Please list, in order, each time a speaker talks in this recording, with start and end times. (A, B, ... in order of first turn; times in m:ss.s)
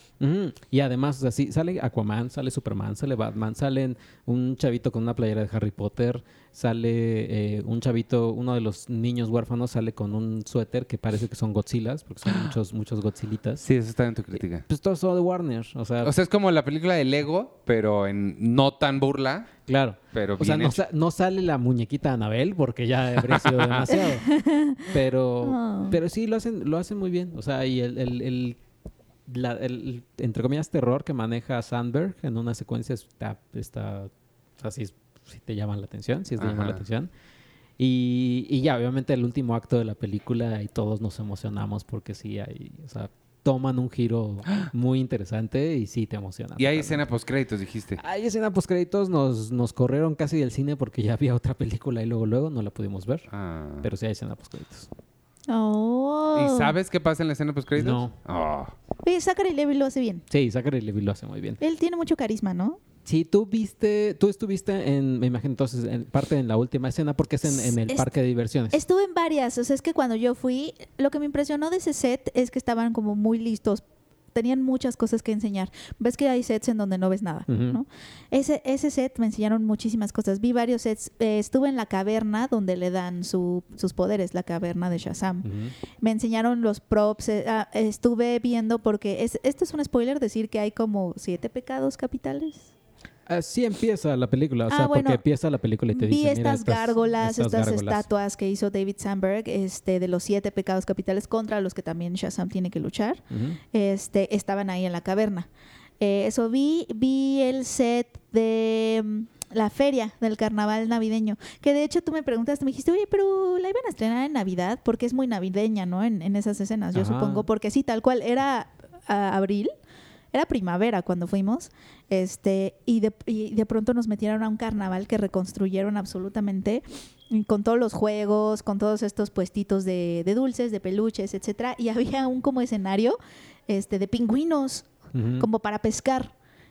0:00.2-0:13.6 A
0:13.6-0:14.6 B
0:14.7-0:16.1 A
0:16.0-0:19.5 B
0:19.7-0:24.3 A
0:20.1-0:20.8 B
0:23.3-0:23.8 B
0:24.0-0:24.9 C
0:24.9-0:28.6 A
0:25.4-0:26.0 C
0:29.3-0:37.1 A
0:36.4-0:36.8 B
0:37.8-0:47.0 A
0:46.6-0:48.0 B
0:48.0-0:53.3 A
0:53.3-0:53.8 B
0:53.8-0:54.9 A
0:55.5-0:56.7 C
0:56.3-0:58.7 B
0:57.8-0:58.1 A
0:59.0-1:00.2 C
1:00.3-1:01.6 A
1:01.6-1:02.8 C
1:03.0-1:08.8 A
1:07.4-1:08.1 C
1:08.7-1:13.8 C
1:14.3-1:25.5 C
1:17.5-1:17.8 A
1:25.4-1:25.7 A
1:26.0-1:32.7 C
1:33.3-1:38.0 A
1:34.7-1:35.2 C
1:35.9-1:45.5 C
1:43.3-1:43.6 A
1:46.0-1:59.7 C
1:56.9-1:57.4 A
2:00.3-2:13.2 C
2:13.7-2:14.9 C
2:15.1-2:15.4 A
2:15.4-2:16.3 C